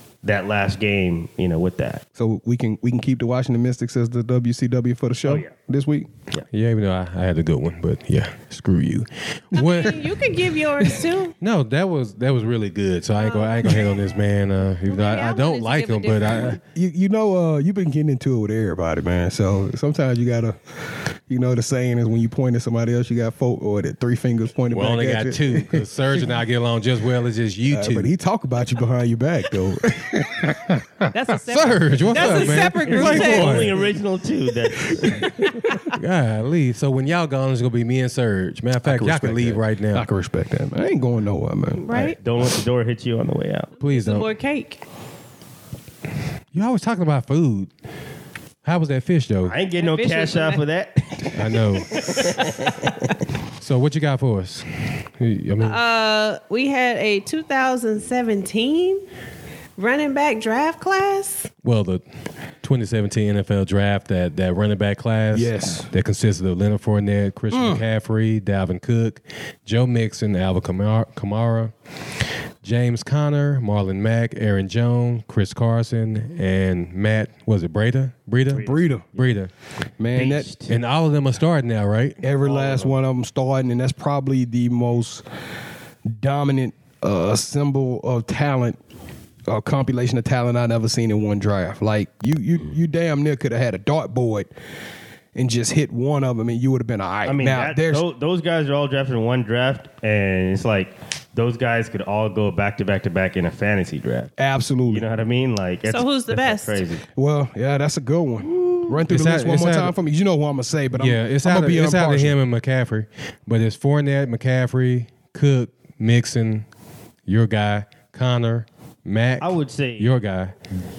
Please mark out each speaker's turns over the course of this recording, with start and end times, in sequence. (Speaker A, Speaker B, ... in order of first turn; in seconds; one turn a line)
Speaker A: 0.2-2.0
Speaker B: 2.1-6.1
Speaker A: 5.2-5.5
Speaker C: 6.5-10.1
Speaker D: 9.5-11.3
Speaker C: 11.4-16.6
Speaker D: 13.2-13.9
Speaker D: 14.8-16.6
Speaker B: 16.6-26.2
Speaker C: 24.7-28.1
Speaker B: 27.7-31.0
Speaker D: 31.1-33.8
Speaker C: 31.4-33.8
Speaker A: 32.5-35.3
Speaker B: 34.9-35.5
Speaker D: 35.6-35.9
Speaker C: 35.8-40.0
Speaker B: 38.8-42.1
Speaker D: 41.8-42.2
Speaker A: 42.1-43.7
Speaker D: 43.8-44.8
Speaker C: 43.8-44.3
Speaker C: 46.5-47.7
Speaker C: 48.6-49.5
Speaker A: 49.4-52.9
Speaker D: 49.8-50.6
Speaker C: 51.3-52.1
Speaker D: 51.9-52.9
Speaker C: 53.6-54.6
Speaker C: 55.2-55.8
Speaker D: 55.6-59.0
Speaker D: 59.8-61.5
Speaker C: 61.6-62.0
Speaker C: 62.6-71.7
Speaker B: 65.3-65.9
Speaker B: 67.5-67.8
Speaker C: 72.6-79.5
Speaker A: 78.5-78.8
Speaker B: 78.6-79.1
Speaker B: 80.0-80.5
Speaker A: 80.1-80.8
Speaker C: 80.7-82.2
Speaker B: 82.2-85.2
Speaker A: 82.4-82.9
Speaker B: 86.1-88.8
Speaker B: 89.5-94.5
Speaker B: 95.3-98.0
Speaker A: 97.2-104.3
Speaker B: 104.4-105.0
Speaker A: 104.9-107.0
Speaker D: 105.9-106.8
Speaker B: 107.2-112.4
Speaker C: 109.1-109.9
Speaker C: 111.0-116.6
Speaker C: 117.2-120.5
Speaker A: 119.4-120.1